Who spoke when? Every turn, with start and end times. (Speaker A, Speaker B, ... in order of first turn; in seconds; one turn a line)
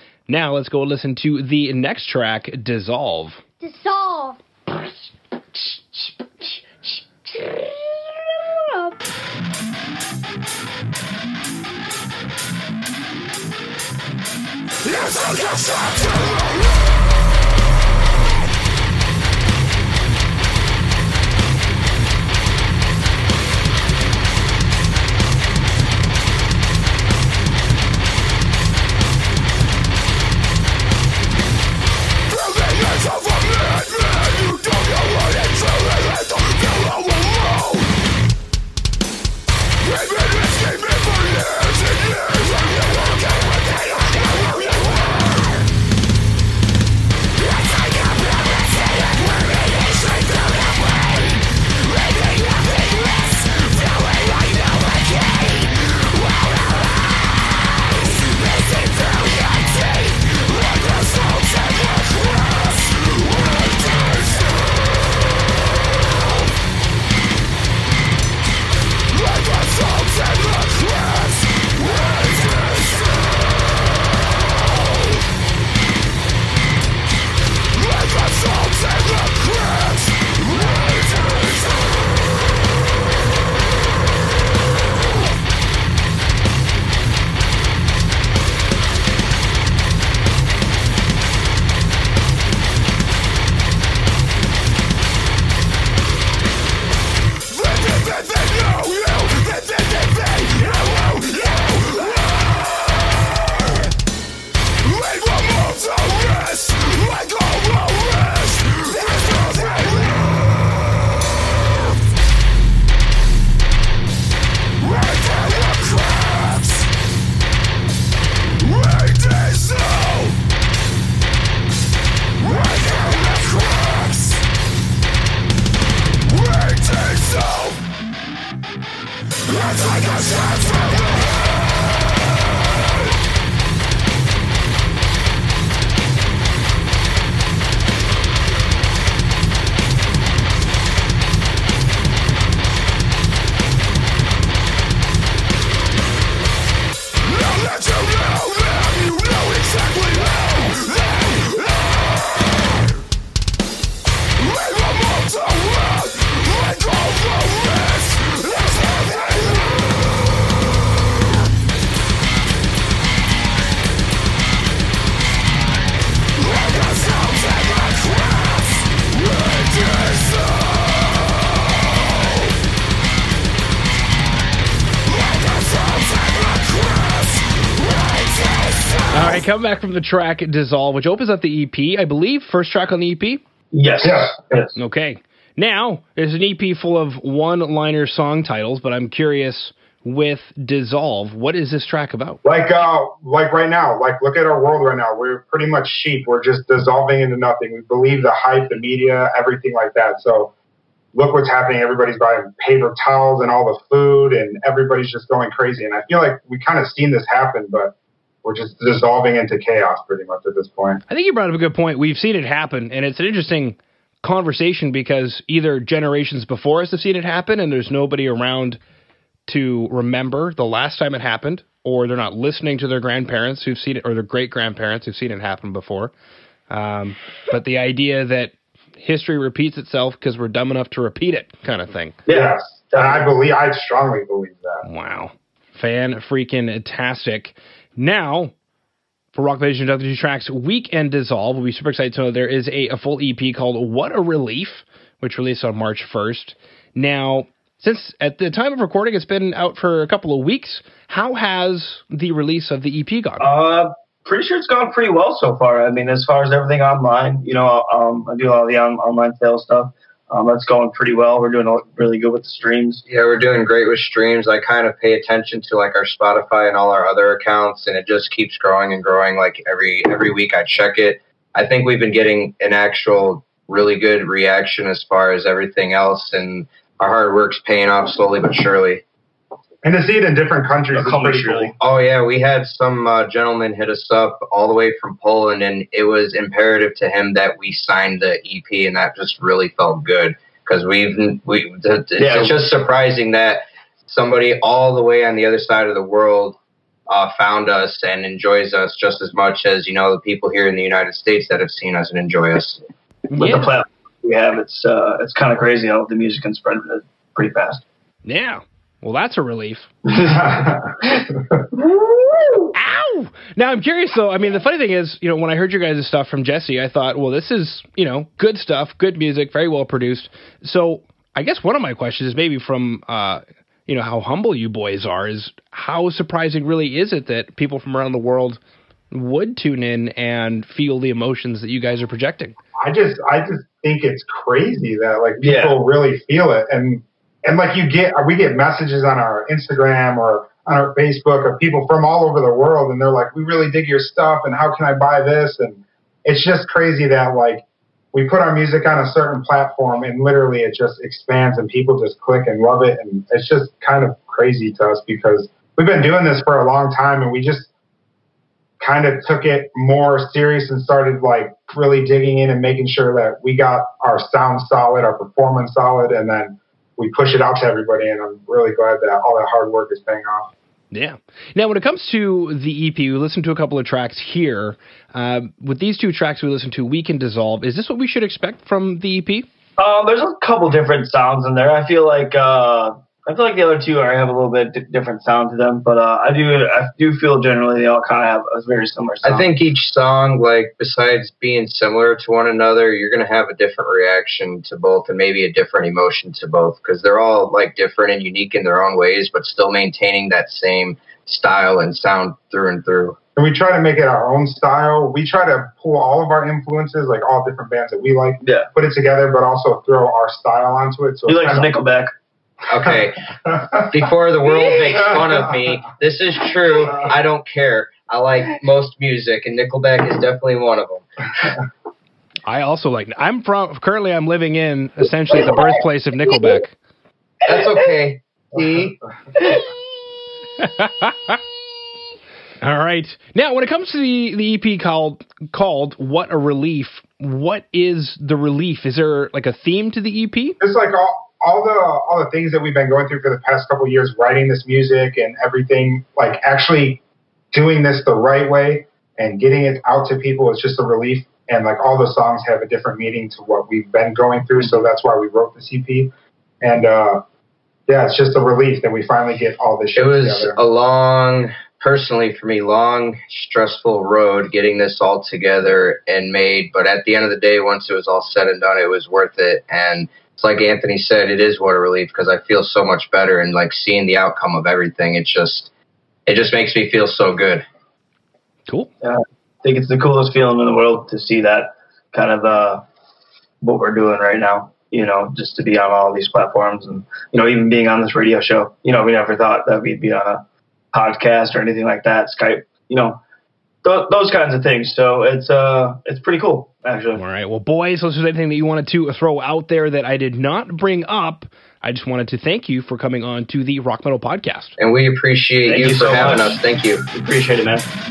Speaker A: 0.3-3.4
Speaker B: 3.6-4.9
Speaker B: 5.5-7.9
Speaker B: 8.5-8.8
Speaker A: 179.1-183.4
Speaker C: 183.7-184.8
Speaker D: 184.0-184.3
Speaker A: 184.8-192.4
Speaker D: 192.4-200.5
Speaker D: 201.1-211.0
Speaker A: 211.1-218.8
Speaker A: 219.5-226.1
Speaker A: 226.7-232.2
Speaker C: 232.3-233.3
Speaker D: 232.3-234.8
Speaker A: 234.8-238.5
Speaker A: 239.3-253.5
Speaker C: 253.4-263.0
Speaker E: 263.1-279.0
Speaker D: 279.8-281.8
Speaker C: 280.9-281.7
Speaker E: 281.8-296.6
Speaker C: 292.2-292.6
Speaker E: 297.1-302.8
Speaker A: 303.3-303.7
Speaker C: 303.4-307.8
Speaker A: 308.3-309.9
Speaker D: 310.2-311.0
Speaker A: 312.6-328.6
Speaker A: 329.1-332.6
Speaker D: 332.8-357.7
Speaker C: 335.4-335.8
Speaker D: 358.8-370.5
Speaker A: 370.9-379.5
Speaker C: 379.8-389.5
Speaker E: 389.2-403.2
Speaker D: 403.4-411.7
Speaker C: 411.3-412.1
Speaker E: 412.7-413.3
Speaker D: 412.9-413.9
Speaker E: 413.9-421.1
Speaker D: 415.1-415.4
Speaker A: 422.5-426.7
Speaker E: 427.4-429.0
Speaker C: 427.6-427.9
Speaker C: 429.4-429.7
Speaker A: 430.6-431.4
Speaker A: 432.6-440.6
Speaker D: 440.6-447.0
Speaker D: 447.5-457.2
Speaker D: 457.9-460.6
Speaker E: 459.9-475.7
Speaker E: 476.3-477.7
Speaker C: 479.0-482.8
Speaker C: 483.6-490.4
Speaker C: 490.9-493.2
Speaker C: 493.8-497.2
Speaker A: 497.1-504.8
Speaker E: 504.8-507.0
Speaker C: 505.6-506.6
Speaker C: 507.1-507.9